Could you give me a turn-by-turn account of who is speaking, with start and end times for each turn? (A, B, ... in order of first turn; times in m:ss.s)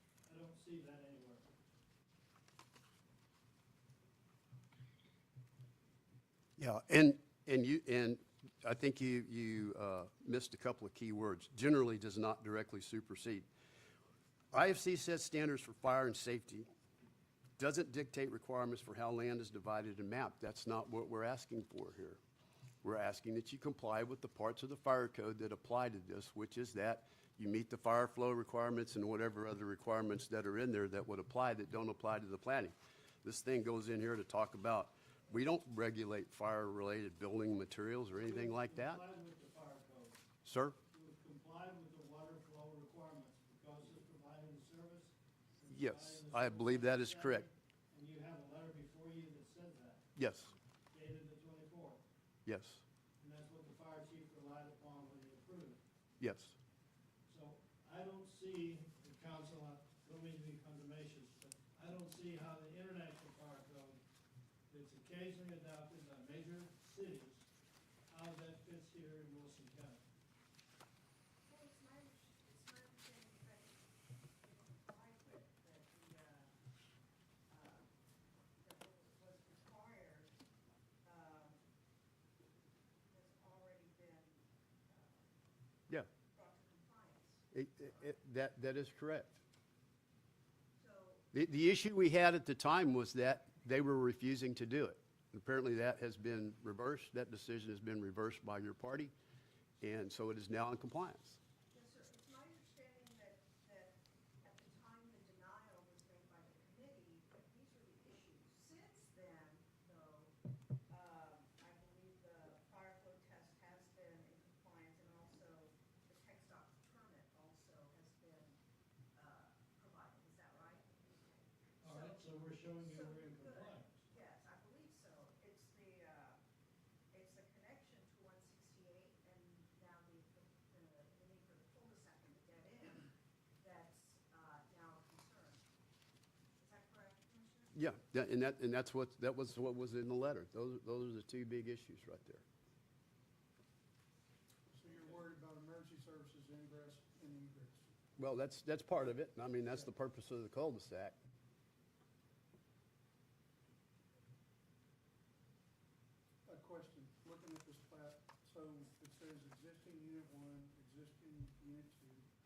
0:00.2-0:01.4 A
0:06.6-0:13.5 B
0:14.5-0:16.7 B
0:17.6-0:22.2 B
0:22.8-0:39.0 B
0:38.2-0:40.2 A
0:40.4-0:40.8 B
0:40.9-0:50.0 A
0:45.7-0:47.5 B
0:50.2-0:50.5 B
0:50.9-0:52.0 A
0:52.4-0:52.8 B
0:53.2-0:55.8 A
0:56.2-0:56.6 B
0:57.3-1:04.0 A
1:04.7-1:07.5 A
1:08.1-1:10.0 A
1:11.5-1:16.5 C
1:17.5-1:17.9 C
1:18.6-1:20.3 C
1:21.0-1:21.6 C
1:23.1-1:25.4 C
1:26.3-1:27.4 C
1:27.5-1:29.4 B
1:30.8-1:31.2 C
1:31.3-1:39.1 B
1:39.8-1:41.4 B
1:41.7-1:50.3 C
1:50.9-1:58.6 C
1:59.1-2:06.4 C
2:01.8-2:04.0 A
2:07.1-2:15.6 C
2:16.6-2:17.7 C
2:17.7-2:22.4 B
2:24.7-2:27.9 D
2:28.2-2:31.2 B
2:36.4-2:42.3 D